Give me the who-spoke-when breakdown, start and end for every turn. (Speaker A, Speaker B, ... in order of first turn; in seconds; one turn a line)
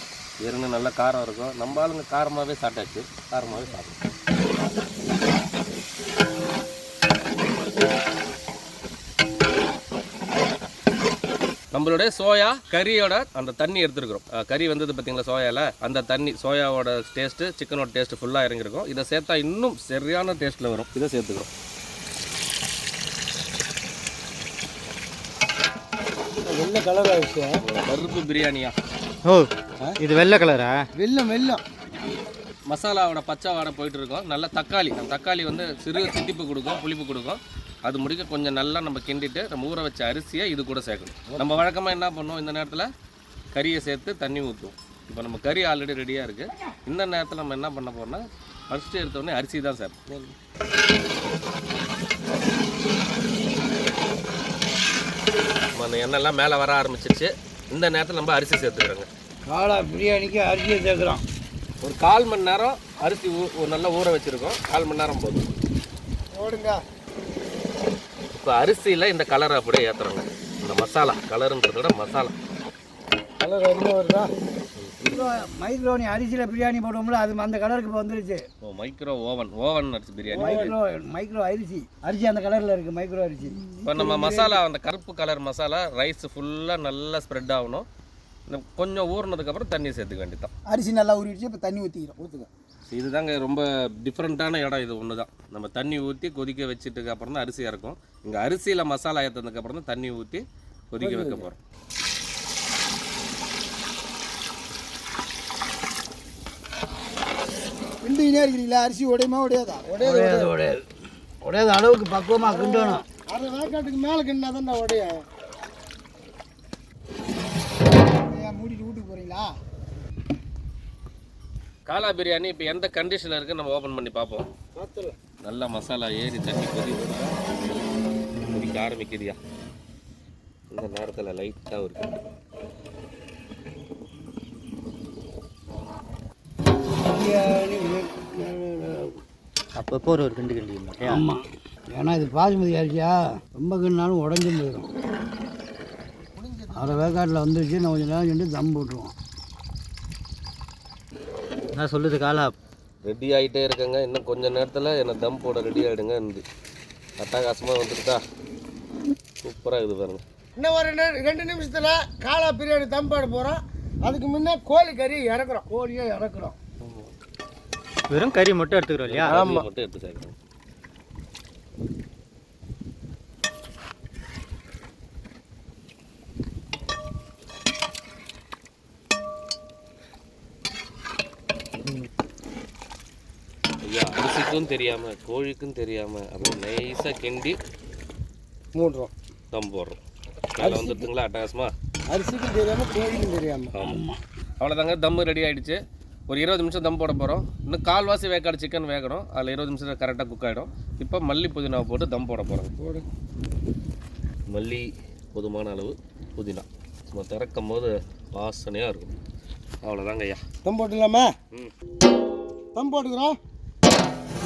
Speaker A: 0.4-4.0
Speaker A: 11.7-21.5
Speaker B: 26.4-27.6
Speaker A: 27.6-28.7
Speaker C: 30.0-30.8
Speaker B: 31.0-31.6
Speaker A: 32.7-42.9
Speaker B: 41.3-41.6
Speaker A: 43.5-50.0
Speaker A: 55.8-59.1
Speaker D: 59.5-61.2
Speaker A: 61.8-65.5
Speaker D: 66.4-66.7
Speaker A: 68.3-72.3
Speaker B: 73.4-74.3
Speaker D: 75.0-78.4
Speaker A: 78.6-80.8
Speaker D: 80.3-84.4
Speaker B: 80.4-80.6
Speaker A: 83.8-87.9
Speaker E: 84.0-84.5
Speaker A: 88.5-90.5
Speaker E: 90.7-92.2
Speaker B: 92.2-92.5
Speaker A: 92.9-101.6
Speaker B: 101.0-101.5
Speaker E: 108.0-109.8
Speaker B: 109.9-110.5
Speaker D: 110.0-110.8
Speaker D: 111.4-113.0
Speaker B: 112.5-115.2
Speaker E: 118.1-119.5
Speaker A: 121.9-124.5
Speaker B: 124.8-125.2
Speaker A: 125.4-127.4
Speaker A: 128.5-129.4
Speaker A: 130.7-132.0
Speaker D: 137.0-139.1
Speaker C: 139.8-141.2
Speaker D: 141.0-144.9
Speaker B: 146.4-147.0
Speaker D: 146.7-149.1
Speaker C: 151.8-152.5
Speaker A: 153.0-156.4
Speaker A: 157.2-158.2
Speaker A: 159.4-160.2
Speaker B: 160.6-165.7
Speaker D: 165.7-166.6
Speaker C: 168.1-169.4
Speaker A: 169.1-170.3
Speaker B: 169.3-169.7
Speaker A: 183.8-187.6
Speaker B: 188.8-189.1
Speaker A: 189.5-190.0
Speaker A: 190.6-191.7
Speaker B: 190.6-191.1
Speaker B: 192.1-193.7
Speaker A: 193.7-194.0
Speaker D: 193.8-194.2
Speaker A: 194.6-202.7
Speaker B: 202.8-203.0
Speaker A: 204.5-209.2
Speaker A: 209.8-210.4
Speaker B: 210.7-211.3
Speaker B: 212.8-213.4